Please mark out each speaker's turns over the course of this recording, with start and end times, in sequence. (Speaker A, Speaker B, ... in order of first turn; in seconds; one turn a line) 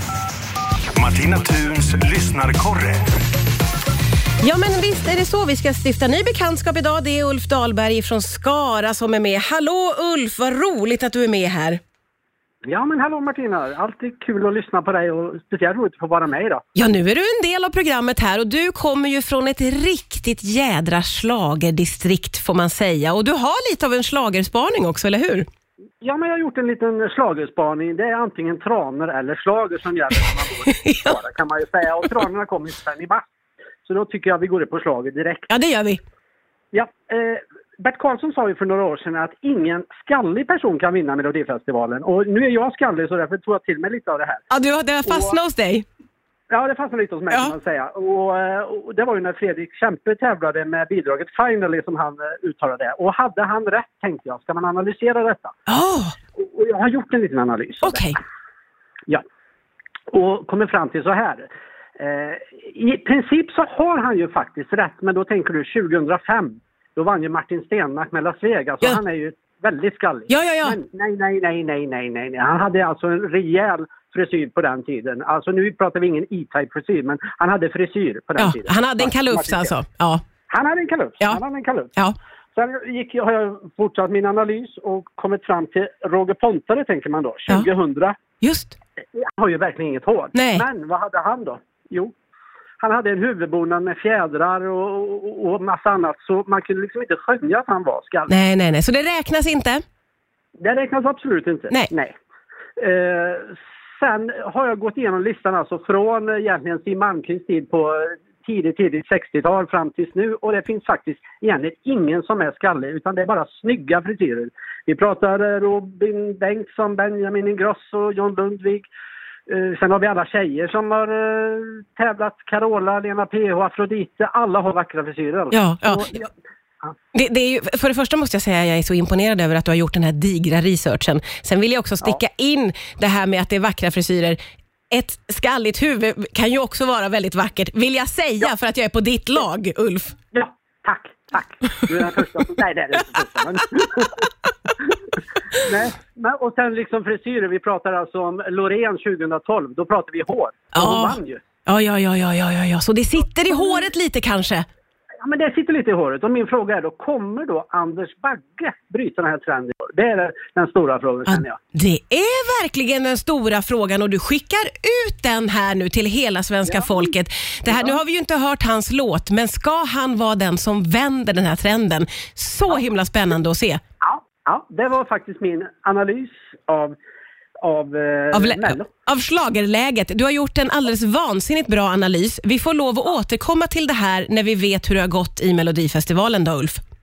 Speaker A: 1.0-3.1
Speaker B: 4.4-11.8
Speaker C: 12.7-16.6
Speaker B: 16.8-25.5
Speaker C: 26.0-33.3
Speaker B: 30.8-31.1
Speaker C: 33.9-35.5
Speaker B: 35.5-36.0
Speaker C: 36.7-44.4
Speaker B: 44.5-45.9
Speaker C: 45.1-45.4
Speaker C: 46.5-55.6
Speaker B: 55.7-56.1
Speaker C: 56.4-58.1
Speaker B: 57.8-58.2
Speaker C: 60.1-79.8
Speaker B: 70.3-70.8
Speaker B: 78.4-80.2
Speaker C: 80.5-82.0
Speaker C: 82.5-88.2
Speaker B: 88.4-88.8
Speaker C: 89.1-92.1
Speaker B: 90.3-90.7
Speaker C: 92.8-98.3
Speaker B: 98.3-99.8
Speaker C: 100.6-102.2
Speaker C: 102.8-118.9
Speaker C: 119.5-126.3
Speaker B: 125.5-126.1
Speaker B: 127.1-134.4
Speaker B: 134.9-140.2
Speaker C: 140.3-144.2
Speaker C: 145.5-151.4
Speaker B: 150.7-154.7
Speaker C: 155.2-161.6
Speaker B: 161.3-173.8
Speaker C: 166.7-167.1
Speaker C: 167.7-168.0
Speaker C: 174.0-176.9
Speaker C: 177.6-178.9
Speaker B: 178.3-186.8